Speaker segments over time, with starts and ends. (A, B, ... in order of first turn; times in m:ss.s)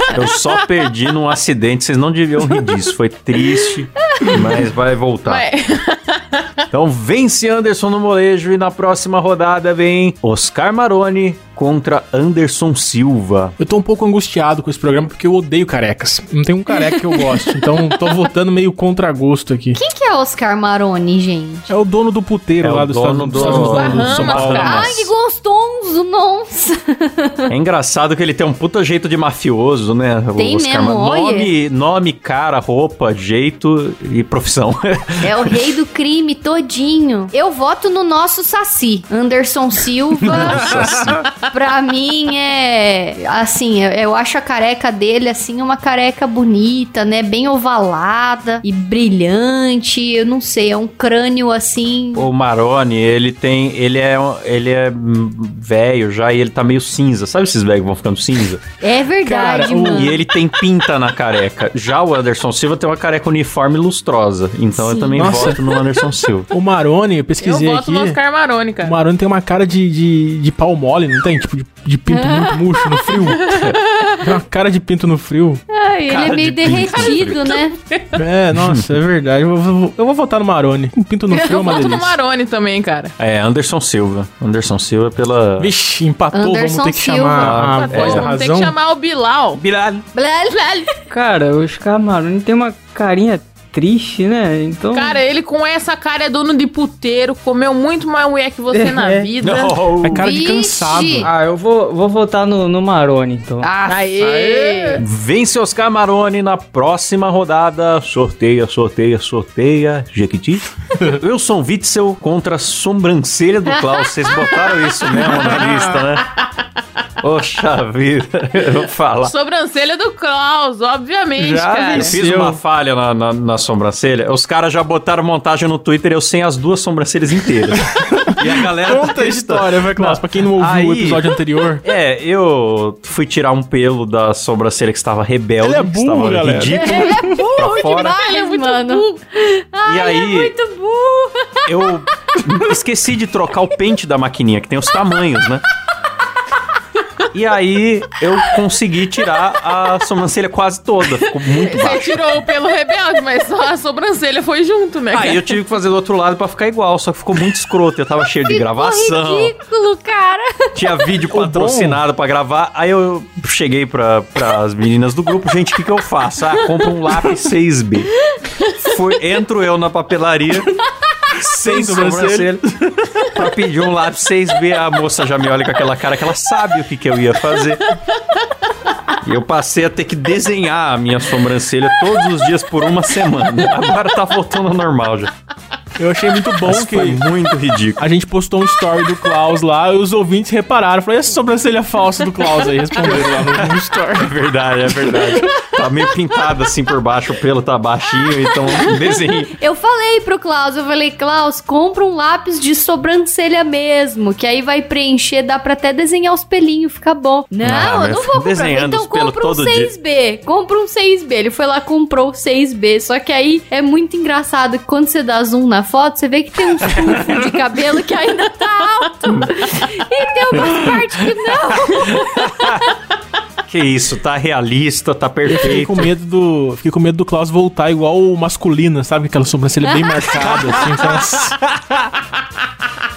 0:00.1-0:05.4 A
0:05.2-0:06.5 B
0:06.7-0:13.5 A
0:13.6-0:19.8 C
0:19.7-0:21.7 D
0:21.7-0:24.9 C
0:22.6-0:25.1 A
0:23.3-0:24.8 B
0:23.4-0:27.5 D
0:27.5-0:35.6 A
0:30.4-0:31.5 D
0:35.2-0:52.3 D
0:40.2-0:41.3 A
0:52.1-0:58.6 A
0:58.8-1:00.2 D
0:59.2-1:00.1 C
0:59.8-1:06.5 A
1:04.7-1:05.6 D
1:05.1-1:05.6 C
1:06.5-1:08.2 C
1:07.4-1:09.0 B
1:08.8-1:15.6 C
1:12.1-1:13.1 D
1:13.4-1:14.1 B
1:15.7-1:17.7 D
1:16.1-1:17.5 A
1:18.2-1:22.2 C
1:18.5-1:18.9 A
1:21.3-1:23.1 B
1:23.2-1:25.7 A
1:25.6-1:28.7 C
1:26.3-1:27.6 D
1:27.4-1:28.3 A
1:27.7-1:29.6 B
1:29.6-1:30.0 A
1:30.1-1:30.9 D
1:31.1-1:35.2 E
1:34.9-1:39.8 B
1:38.7-1:39.3 E
1:39.4-1:40.3 A
1:40.0-1:41.3 C
1:40.1-1:41.3 D
1:41.2-1:45.0 E
1:43.8-1:45.0 B
1:45.0-1:56.3 A
1:57.2-1:59.3 A
1:59.2-2:02.2 B
2:01.4-2:18.2 A
2:01.9-2:02.6 C
2:07.7-2:11.8 C
2:15.6-2:17.4 C
2:16.7-2:21.9 D
2:18.0-2:19.2 B
2:19.8-2:20.5 A
2:21.6-2:25.6 A
2:27.3-2:32.2 A
2:31.2-2:35.5 B
2:35.1-2:39.5 A
2:38.4-2:41.0 D
2:40.7-2:48.1 A
2:41.3-2:42.0 C
2:48.8-2:50.7 A
2:51.3-2:52.6 A
2:51.6-2:52.8 C
2:53.3-2:57.8 A
2:59.2-3:05.3 A
3:06.0-3:07.2 C
3:06.6-3:08.0 A
3:08.0-3:15.2 C
3:13.0-3:19.5 A
3:19.6-3:42.8 D
3:27.6-3:29.9 A
3:37.0-3:37.4 A
3:39.2-3:39.5 A
3:40.5-3:42.9 A
3:43.6-3:46.1 A
3:45.4-3:51.5 C
3:50.3-3:52.3 A